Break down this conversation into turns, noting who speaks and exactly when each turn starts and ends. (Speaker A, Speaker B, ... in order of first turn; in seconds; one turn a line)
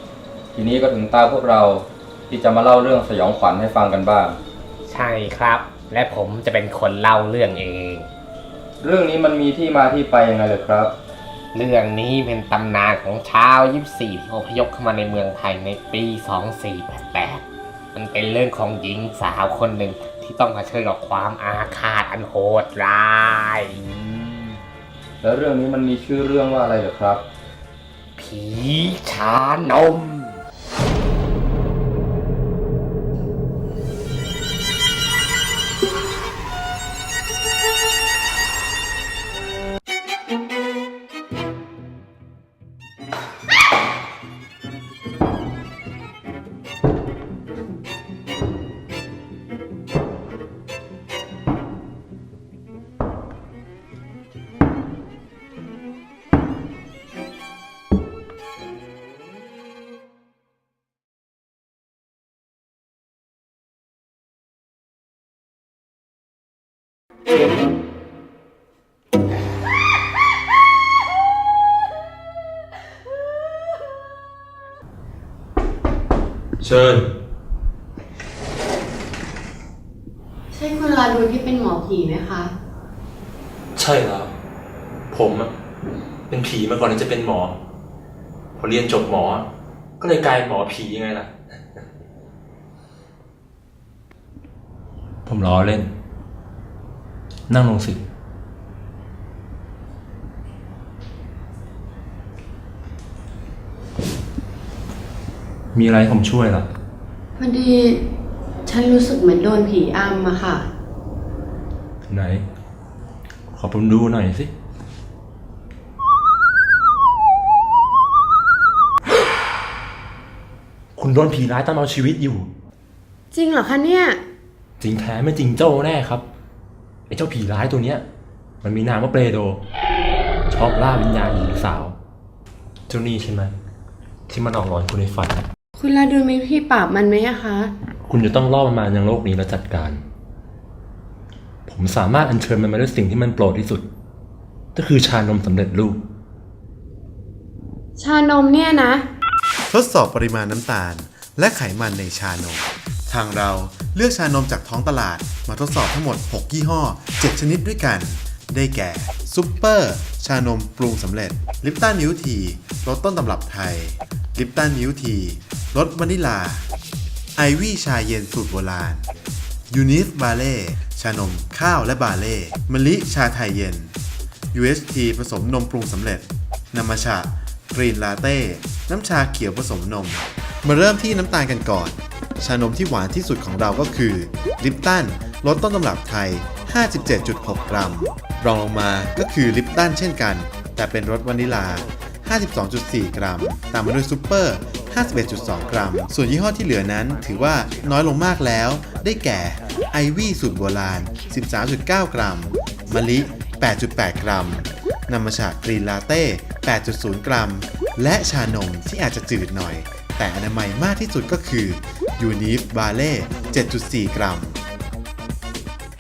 Speaker A: 0.5-4.4
Speaker B: 4.9-8.1
Speaker A: 8.8-10.9
Speaker B: 11.5-17.4
Speaker B: 17.9-24.5
Speaker A: 25.2-27.2
Speaker B: 28.2-30.4
Speaker C: 76.6-77.1
Speaker D: 80.5-82.5
Speaker C: 83.8-84.3
Speaker C: 85.1-85.5
Speaker C: 86.3-87.6
Speaker C: 88.6-89.5
Speaker C: 90.0-91.8
Speaker C: 95.3-95.9
Speaker C: 97.5-98.0
Speaker C: 105.7-106.7
Speaker D: 107.4-108.0
Speaker D: 108.7-110.7
Speaker C: 112.1-112.4
Speaker C: 113.5-114.5
Speaker C: 121.0-122.5
Speaker D: 123.3-124.2
Speaker C: 124.8-126.2
Speaker C: 127.1-128.0
Speaker C: 128.6-129.6
Speaker C: 130.5-132.0
Speaker C: 132.9-133.5
Speaker C: 134.3-135.4
Speaker D: 135.8-137.7
Speaker C: 138.1-140.0
Speaker C: 141.7-143.9
Speaker C: 144.8-146.0
Speaker D: 148.0-149.1
Speaker E: 149.7-166.7
Speaker E: 167.4-169.1
Speaker E: 169.7-173.9
Speaker E: 174.5-214.6